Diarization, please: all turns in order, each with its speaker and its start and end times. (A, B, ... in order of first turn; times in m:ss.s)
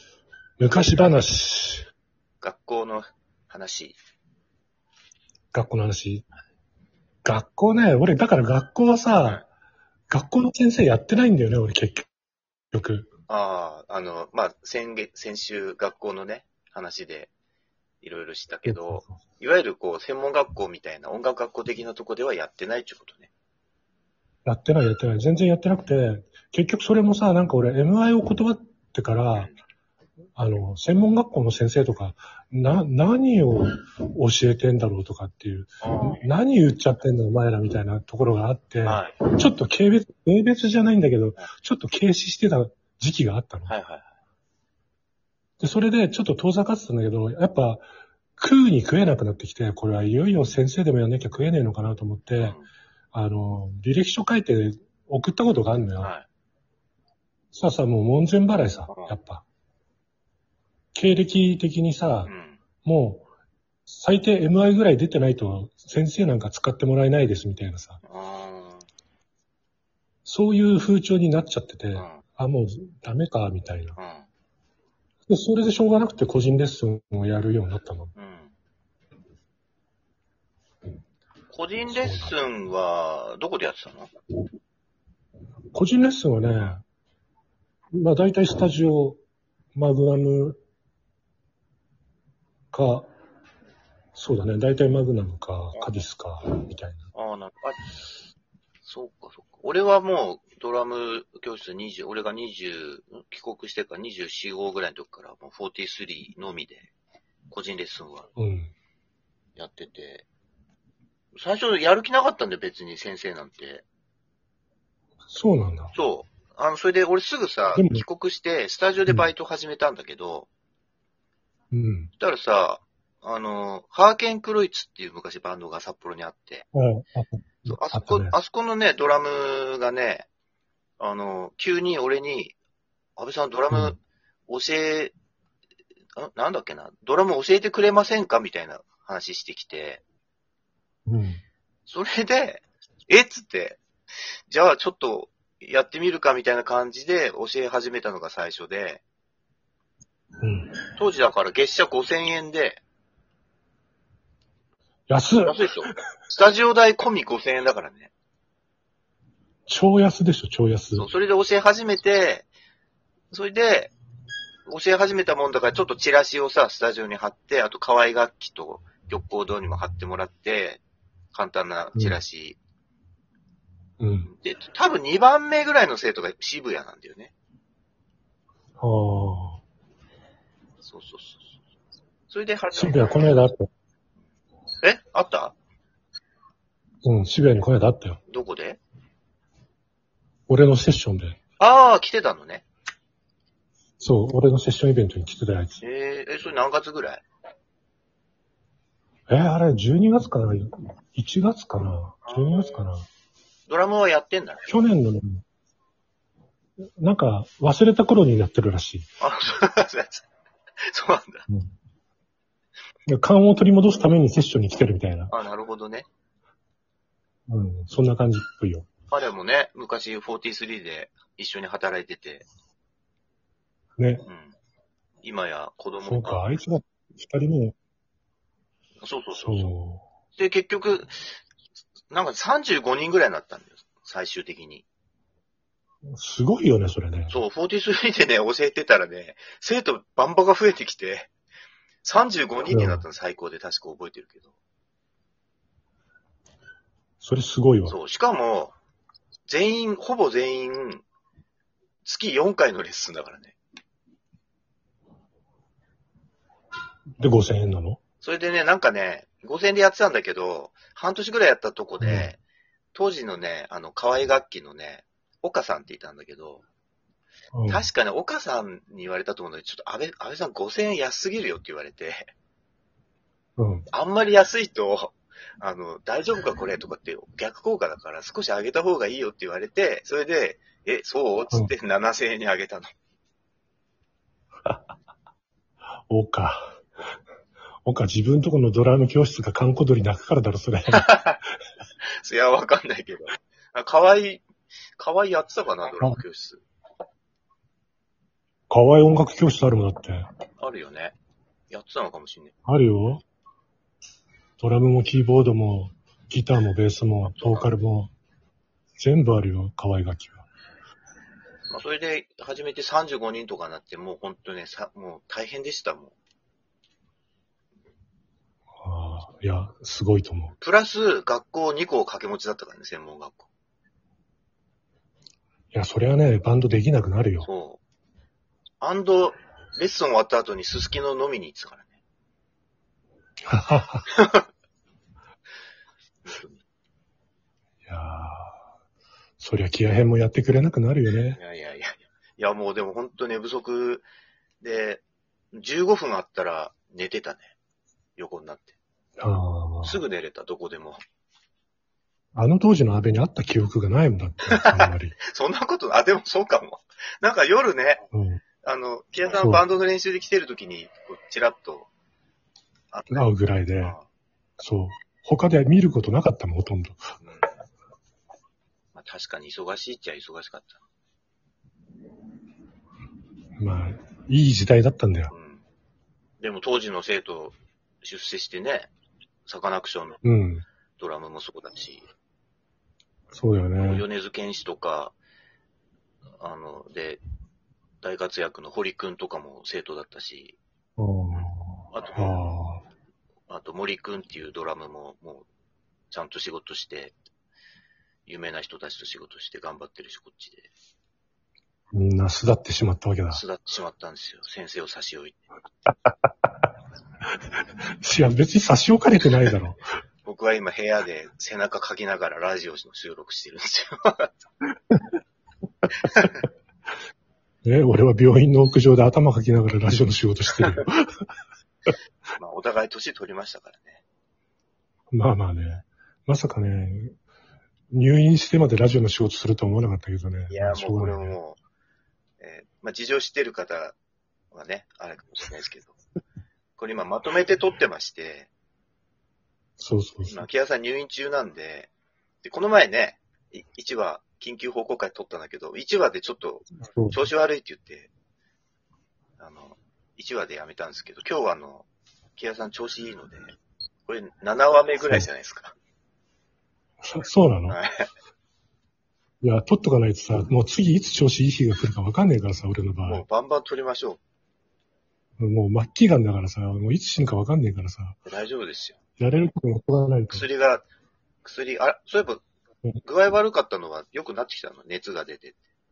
0:00.6-0:01.8 A
0:02.4-0:04.0 B
0:05.5-0:06.2 A
0:07.2-0:09.4 A
0:10.1-0:12.1 A
0:12.7-0:13.1 A
0:13.3-0:17.3 B
0:18.0-0:23.3 B
0:18.6-0:19.2 A
0:24.4-0:29.5 A
0:30.4-0:43.7 A
0:35.8-0:36.3 B
0:38.8-0:39.2 B
0:43.7-0:44.1 B
0:45.6-0:47.8 A
0:48.4-0:52.6 A
0:52.4-0:52.7 B
0:53.1-0:56.1 A
0:57.5-0:59.4 A
0:58.9-0:59.2 B
1:00.9-1:02.3 A
1:02.2-1:02.6 B
1:02.8-1:03.3 A
1:03.9-1:08.0 A
1:08.0-1:08.8 B
1:10.2-1:14.0 A
1:11.9-1:12.2 B
1:14.0-1:14.3 B
1:15.3-1:18.1 A
1:18.1-1:18.5 B
1:21.5-1:24.1 B
1:21.9-1:22.3 A
1:25.7-1:26.8 A
1:27.9-1:29.2 A
1:29.7-1:30.6 A
1:32.7-1:33.1 A
1:34.1-1:37.0 A
1:35.7-1:36.0 B
1:37.1-1:37.8 B
1:38.8-1:46.9 B
1:47.5-1:48.3 B
1:48.4-1:48.7 A
1:49.6-1:50.2 B
1:51.4-1:53.8 B
1:55.3-1:55.9 A
1:55.9-2:00.5 B
1:57.7-1:58.0 A
2:01.7-2:02.1 A
2:02.2-2:06.7 B
2:06.7-2:08.4 A
2:07.7-2:10.2 B
2:11.0-2:12.5 B
2:13.2-2:15.1 B
2:16.2-2:20.0 B
2:21.1-2:21.4 A
2:21.8-2:23.8 B
2:24.5-2:29.0 B
2:30.4-2:30.7 A
2:31.0-2:32.8 B
2:35.1-2:35.9 A
2:35.4-2:38.1 B
2:39.7-2:41.1 A
2:41.0-2:42.5 B
2:43.3-2:43.9 B
2:44.6-2:50.8 B
2:51.3-2:52.6 B
2:51.9-2:52.2 A
2:54.0-2:54.3 A
2:54.2-2:57.3 B
2:58.8-2:59.6 A
3:00.8-3:01.5 B
3:02.3-3:03.4 B
3:02.7-3:03.7 A
3:04.8-3:05.6 B
3:07.0-3:08.2 A
3:08.3-3:08.8 B
3:10.5-3:11.4 A
3:11.6-3:12.6 B
3:14.0-3:15.8 A
3:15.8-3:17.2 B
3:19.3-3:23.1 A
3:22.2-3:22.9 B
3:23.7-3:24.7 B
3:24.7-3:25.4 A
3:27.0-3:29.1 A
3:29.2-3:30.2 B
3:30.9-3:31.4 B
3:33.1-3:35.3 A
3:35.3-3:36.1 B
3:37.5-3:38.9 A
3:39.1-3:42.4 B
3:44.0-3:44.2 A
3:44.2-3:44.5 B
3:45.2-3:46.5 B
3:46.0-3:47.7 A
3:49.0-3:49.7 B
3:49.4-3:50.0 A
3:50.4-3:51.3 B
3:52.1-3:54.8 B
3:56.1-3:57.4 A
3:57.3-4:01.3 B
4:02.0-4:04.5 B
4:02.7-4:03.0 A
4:07.2-4:08.0 A
4:07.9-4:08.7 B
4:09.5-4:11.0 B
4:12.0-4:13.6 B
4:17.2-4:18.0 A
4:18.2-4:22.4 B
4:22.0-4:22.3 A
4:22.9-4:26.6 B
4:27.5-4:27.8 A
4:27.7-4:32.3 B
4:33.6-4:33.9 A
4:33.9-4:42.9 B
4:46.1-4:46.8 A
4:47.8-4:51.2 A
4:50.9-4:51.4 B
4:52.1-4:54.4 B
4:55.0-4:56.6 B
4:58.7-5:00.3 A
5:00.6-5:01.1 B
5:01.7-5:02.5 B
5:02.6-5:03.2 A
5:04.6-5:08.1 A
5:07.3-5:07.7 B
5:09.0-5:10.4 A
5:11.7-5:16.1 B
5:18.8-5:20.5 A
5:20.6-5:23.5 B
5:25.7-5:27.5 A
5:27.4-5:27.8 B
5:28.8-5:31.9 B
5:33.4-5:34.1 A
5:34.1-5:34.4 B
5:36.2-5:36.6 B
5:37.8-5:38.6 A
5:39.4-5:41.4 A
5:41.3-5:44.0 B
5:44.6-5:47.5 B
5:48.2-5:48.7 B
5:49.2-5:50.0 A
5:49.8-5:51.0 B
5:52.3-5:55.2 A
5:54.5-5:58.0 B
5:58.1-5:58.4 A
5:58.6-6:01.9 B
5:59.3-5:59.6 A
6:02.9-6:03.3 B
6:03.1-6:04.0 A
6:03.8-6:04.0 B
6:04.6-6:07.0 A
6:07.2-6:07.5 B
6:08.9-6:10.8 B
6:13.6-6:15.3 A
6:15.3-6:15.6 B
6:16.4-6:18.9 B
6:19.4-6:20.2 B
6:20.2-6:20.6 A
6:21.0-6:22.0 B
6:23.3-6:24.0 A
6:23.8-6:25.2 B
6:26.4-6:27.2 B
6:28.0-6:30.6 B
6:31.0-6:32.8 A
6:31.3-6:32.4 B
6:33.5-6:35.4 B
6:36.1-6:37.2 B
6:38.2-6:40.7 B
6:41.9-6:43.4 A
6:43.3-6:45.4 B
6:48.0-6:49.8 A
6:50.2-6:54.3 B
6:56.0-6:56.4 B
6:57.6-7:01.2 A
7:02.4-7:04.0 B
7:05.1-7:07.1 A
7:07.9-7:11.4 A
7:10.5-7:11.6 B
7:12.4-7:14.0 B
7:14.5-7:16.0 B
7:16.8-7:18.5 B
7:19.8-7:20.4 A
7:20.2-7:21.9 B
7:22.4-7:28.1 B
7:26.9-7:27.2 A
7:29.4-7:33.5 B
7:34.0-7:35.7 B
7:35.0-7:35.3 A
7:37.0-7:37.8 A
7:37.7-7:38.1 B
7:39.4-7:43.2 A
7:43.0-7:44.2 B
7:45.4-7:48.2 A
7:48.2-7:49.0 B
7:49.2-7:50.4 A
7:50.3-7:50.8 B
7:51.4-7:52.4 B
7:53.0-7:55.6 B